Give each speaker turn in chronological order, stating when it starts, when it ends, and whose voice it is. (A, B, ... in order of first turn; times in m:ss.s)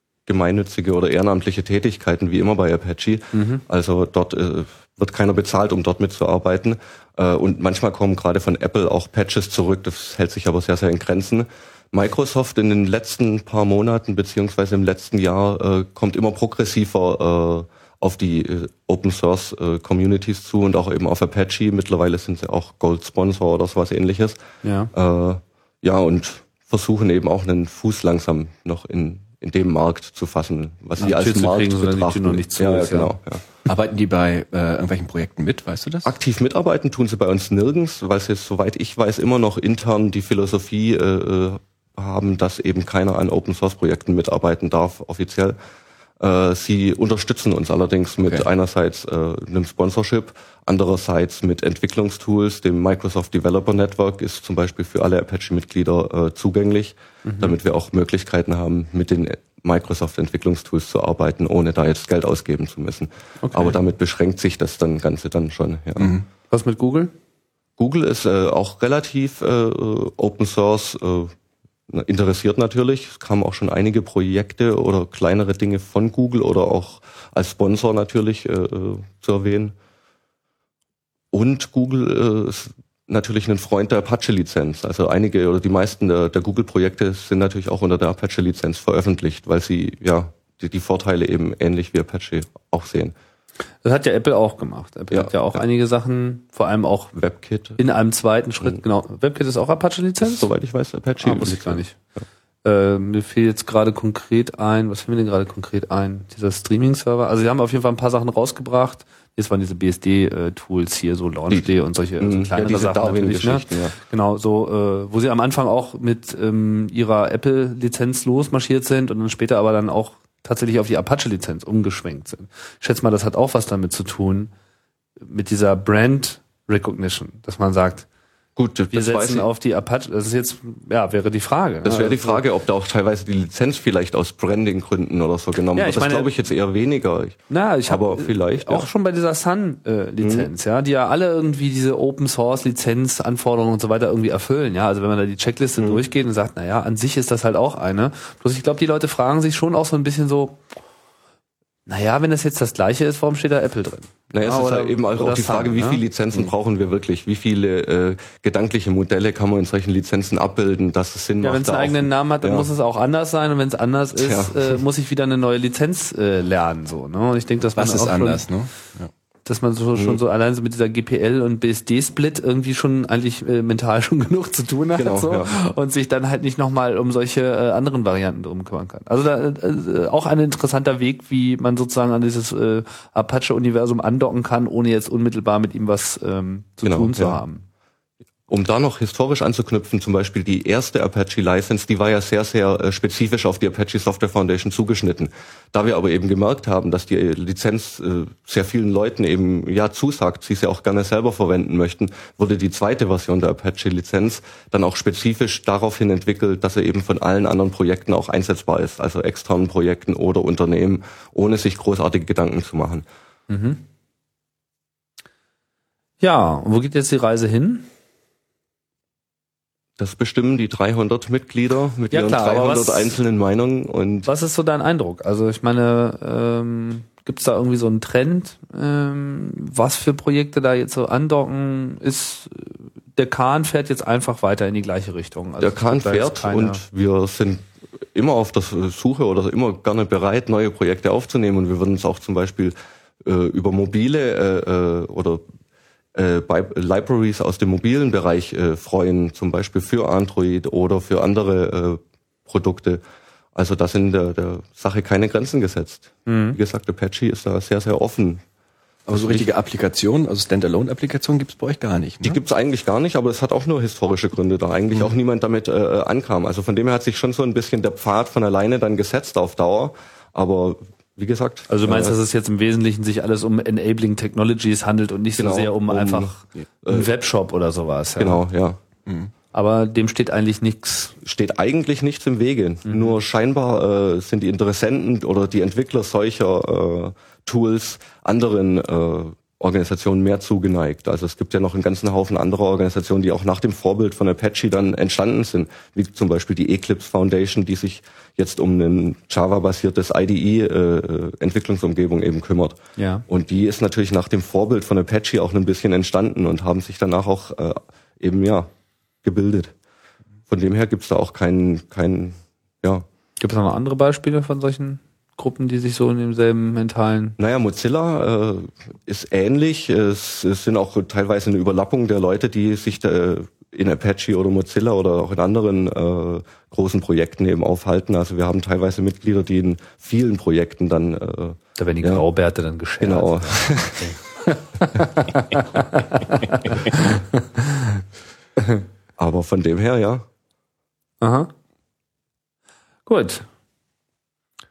0:00.3-0:24.4 A
0:03.3-0:03.6 B
0:24.6-0:24.9 B
0:24.9-0:33.4 A
0:31.0-0:33.1 B
0:33.7-0:36.1 C
0:36.0-0:45.6 A
0:46.2-1:06.1 A
0:57.2-0:57.6 B
1:03.4-1:03.8 B
1:06.0-1:06.3 C
1:06.5-1:07.1 B
1:07.8-1:11.3 A
1:11.9-1:19.7 A
1:21.3-1:33.1 A
1:33.8-1:37.1 B
1:35.1-1:35.6 A
1:37.1-1:37.8 A
1:37.8-1:40.5 B
1:40.2-1:41.8 A
1:41.2-1:42.0 B
1:42.6-2:04.5 B
1:51.5-1:54.0 A
2:05.2-2:08.1 B
2:08.6-2:09.5 A
2:08.9-2:12.4 B
2:11.8-2:18.9 A
2:15.8-2:16.3 B
2:17.5-2:30.6 B
2:20.2-2:20.5 A
2:31.9-2:36.0 B
2:34.3-2:42.7 A
2:41.4-2:48.4 B
2:44.2-2:44.8 A
2:47.8-2:49.1 C
2:49.5-3:07.6 B
2:55.0-2:55.5 A
3:06.8-3:07.4 A
3:08.5-3:33.1 A
3:33.5-3:33.8 B
3:36.2-3:37.9 B
3:40.0-3:44.3 A
3:42.1-3:43.2 B
3:44.3-3:56.8 B
3:55.6-3:57.6 A
3:58.1-4:05.4 A
4:06.2-4:13.0 A
4:13.6-4:18.4 A
4:16.3-4:16.6 B
4:19.1-4:22.4 C
4:19.1-4:19.5 A
4:22.2-4:32.2 A
4:31.7-4:38.4 B
4:35.4-4:37.1 A
4:38.2-4:38.8 A
4:39.1-4:39.3 C
4:39.5-4:41.1 B
4:41.2-5:08.7 A
5:03.0-5:03.2 B
5:09.2-5:09.7 A
5:10.5-5:13.0 A
5:13.4-5:17.4 B
5:17.4-5:32.2 A
5:31.8-5:37.9 B
5:33.0-5:34.1 A
5:39.2-5:40.2 A
5:41.2-5:41.5 B
5:43.1-5:43.5 B